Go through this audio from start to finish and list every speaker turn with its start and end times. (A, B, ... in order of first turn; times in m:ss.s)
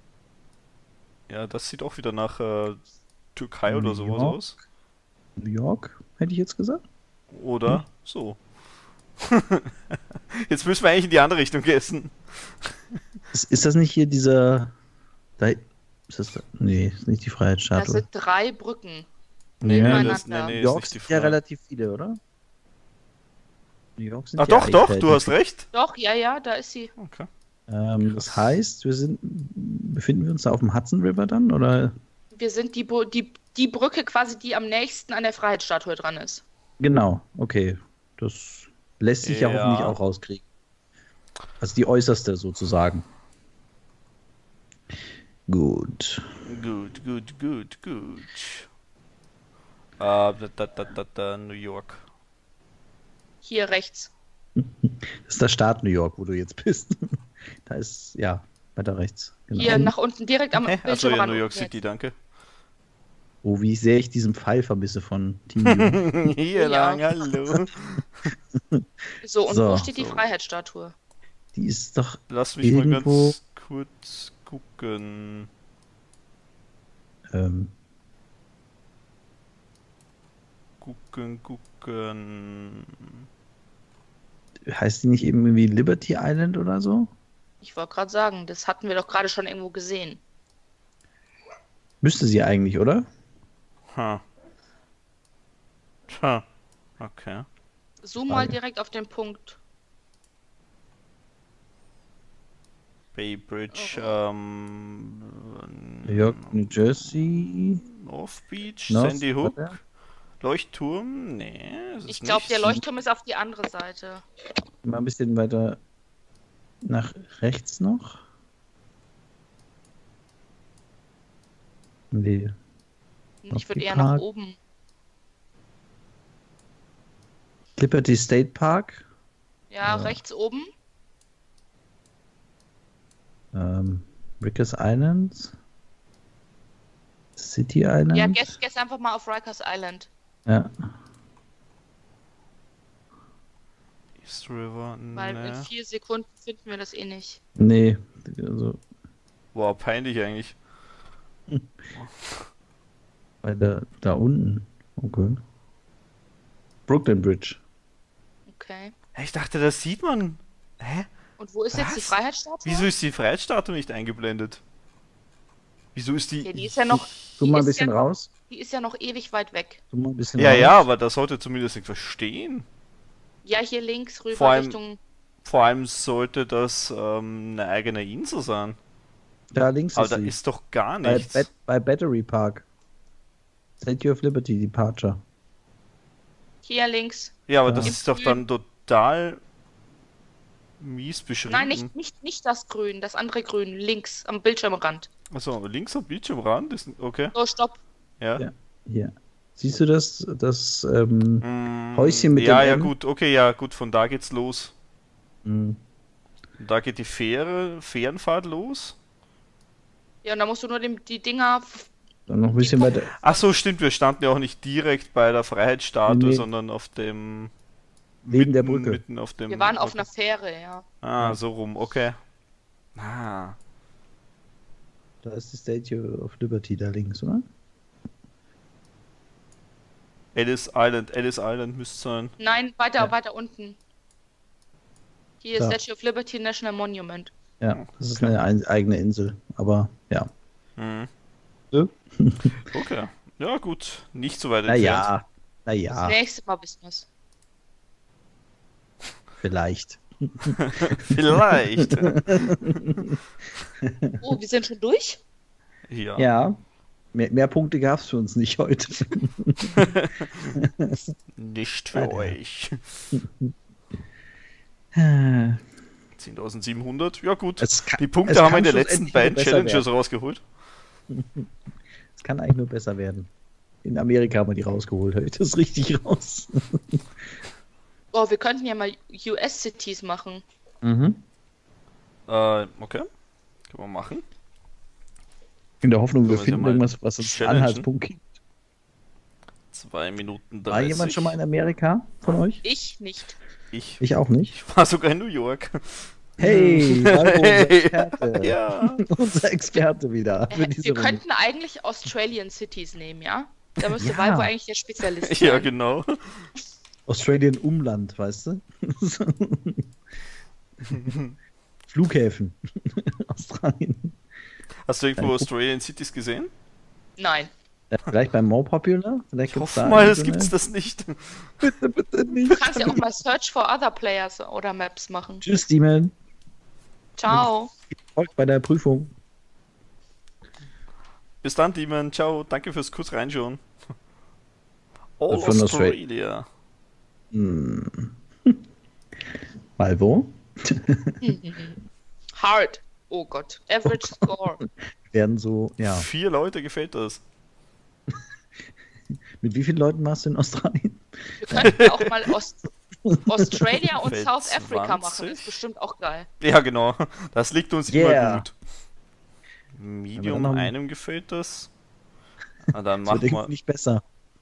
0:01.3-0:02.8 A
0:03.3-0:04.6 A
0:03.6-0:04.4 B
0:05.4-0:06.8 B
0:07.3-0:08.4 A
0:09.2-0:09.9 A
0:10.4-0:12.1 A
0:13.3-0:14.7 B
0:15.4-0:18.0 B
0:17.8-0:19.1 C
0:19.6-0:22.2 B
0:19.6-0:21.4 A
0:19.7-0:20.6 C
0:24.0-0:25.4 B
0:24.4-0:25.7 A
0:25.7-0:26.9 C
0:27.0-0:27.3 A
0:27.7-0:31.9 B
0:28.0-0:28.6 A
0:32.3-0:36.4 C
0:36.8-0:40.4 B
0:39.2-0:40.0 A
0:41.6-0:43.0 B
0:45.5-0:46.2 B
0:46.4-0:48.7 A
0:50.0-0:52.0 A
0:53.4-0:54.1 C
0:54.6-0:57.0 B
0:57.6-0:59.9 B
0:59.5-1:01.7 C
1:00.5-1:02.1 A
1:03.4-1:06.1 B
1:05.7-1:08.3 A
1:06.5-1:07.0 C
1:08.6-1:08.8 B
1:09.2-1:10.9 C
1:09.4-1:09.9 B
1:09.9-1:10.3 A
1:11.5-1:13.4 B
1:12.3-1:15.5 A
1:17.3-1:17.7 B
1:20.8-1:23.2 A
1:24.7-1:27.1 B
1:27.6-1:30.2 C
1:32.0-1:33.0 B
1:33.9-1:34.2 A
1:36.1-1:36.4 A
1:37.0-1:37.4 A
1:38.0-1:39.6 C
1:38.3-1:38.6 B
1:43.1-1:49.8 A
1:43.7-1:44.2 C
1:46.0-1:47.8 B
1:48.9-1:49.8 B
1:50.4-1:52.7 A
1:52.1-1:54.2 C
1:54.8-1:55.8 B
1:56.8-1:58.2 B
2:02.1-2:02.5 B
2:03.4-2:04.6 C
2:03.5-2:04.2 B
2:07.8-2:09.0 B
2:09.7-2:10.7 C
2:09.8-2:10.2 B
2:13.5-2:15.5 B
2:17.4-2:18.5 B
2:18.1-2:20.1 C
2:20.4-2:20.7 B
2:24.2-2:25.7 A
2:25.1-2:27.4 C
2:27.6-2:28.8 B
2:29.5-2:30.6 A
2:31.9-2:32.4 A
2:33.4-2:35.4 B
2:36.9-2:37.6 B
2:38.5-2:38.9 C
2:39.1-2:41.1 A
2:41.4-2:42.9 C
2:41.7-2:44.6 A
2:45.9-2:47.4 A
2:46.4-2:49.8 C
2:46.9-2:48.3 B
2:49.9-2:50.8 B
2:50.4-2:52.6 A
2:53.4-2:55.0 C
2:54.3-2:54.8 A
2:55.4-2:58.8 A
2:59.5-3:00.4 B
2:59.9-3:01.5 A
3:01.0-3:02.6 B
3:03.8-3:05.2 B
3:06.6-3:08.4 C
3:07.5-3:09.4 A
3:07.6-3:07.9 B
3:10.8-3:11.9 A
3:11.5-3:15.1 C
3:15.3-3:17.3 A
3:17.3-3:17.8 C
3:18.4-3:22.9 B
3:21.4-3:24.7 A
3:25.4-3:25.8 B
3:26.6-3:29.0 A
3:30.2-3:31.9 C
3:32.3-3:33.1 B
3:32.6-3:32.9 C
3:32.8-3:37.5 A
3:36.1-3:36.5 B
3:38.2-3:40.1 A
3:38.3-3:39.0 B
3:39.5-3:40.8 C
3:41.0-3:42.2 A
3:43.0-3:43.6 A
3:45.2-3:47.4 B
3:50.3-3:52.3 A
3:52.4-3:53.8 C
3:55.4-3:57.3 C
3:57.6-4:00.3 B
3:57.7-3:58.3 A
4:00.8-4:01.1 A
4:01.7-4:02.5 B
4:02.6-4:05.1 A
4:04.7-4:06.2 B
4:06.0-4:07.1 C
4:09.4-4:10.6 B
4:10.6-4:12.2 A
4:12.3-4:13.2 B
4:13.8-4:14.2 B
4:14.2-4:15.2 C
4:15.9-4:16.2 A
4:16.2-4:16.5 B
4:17.1-4:19.8 B
4:19.7-4:20.6 A
4:20.6-4:21.1 B
4:21.4-4:23.1 A
4:21.9-4:22.4 B
4:23.1-4:23.5 B
4:25.0-4:25.6 B
4:26.2-4:30.4 A
4:27.6-4:29.9 B
4:31.1-4:31.5 B
4:32.1-4:33.3 B
4:33.8-4:37.0 B
4:38.1-4:40.4 C
4:40.8-4:41.2 B
4:42.3-4:43.0 A
4:43.7-4:44.2 A
4:45.8-4:48.2 B
4:46.2-4:47.9 A
4:49.7-4:51.4 A
4:50.7-4:52.6 B
4:52.6-4:53.4 C
4:53.7-4:59.0 A
4:54.0-4:54.5 B
4:56.4-5:01.2 B
5:00.5-5:05.7 C
5:04.0-5:04.5 B
5:05.2-5:06.4 A
5:07.1-5:09.8 B
5:10.9-5:11.3 A
5:11.9-5:14.2 B
5:14.9-5:16.5 A
5:15.2-5:15.5 B
5:17.2-5:17.5 C
5:17.9-5:20.5 B
5:19.5-5:21.7 A
5:21.6-5:23.0 B
5:22.4-5:25.4 C
5:22.5-5:23.0 A
5:25.4-5:26.1 B
5:27.2-5:27.7 C
5:28.1-5:29.1 B
5:31.4-5:33.6 A
5:35.2-5:36.4 A
5:35.3-5:36.0 B
5:37.3-5:38.6 B
5:39.8-5:41.2 B
5:41.2-5:41.8 C
5:42.4-5:44.6 C
5:43.8-5:46.1 B
5:45.8-5:47.2 A
5:49.4-5:51.8 B
5:51.4-5:52.7 C
5:51.6-5:51.9 A
5:53.3-5:56.3 C
5:54.0-5:55.6 A
5:56.4-5:58.5 A
5:57.9-5:58.5 B
5:59.7-6:01.7 A
6:00.2-6:00.7 B
6:02.7-6:03.5 A
6:03.0-6:04.0 B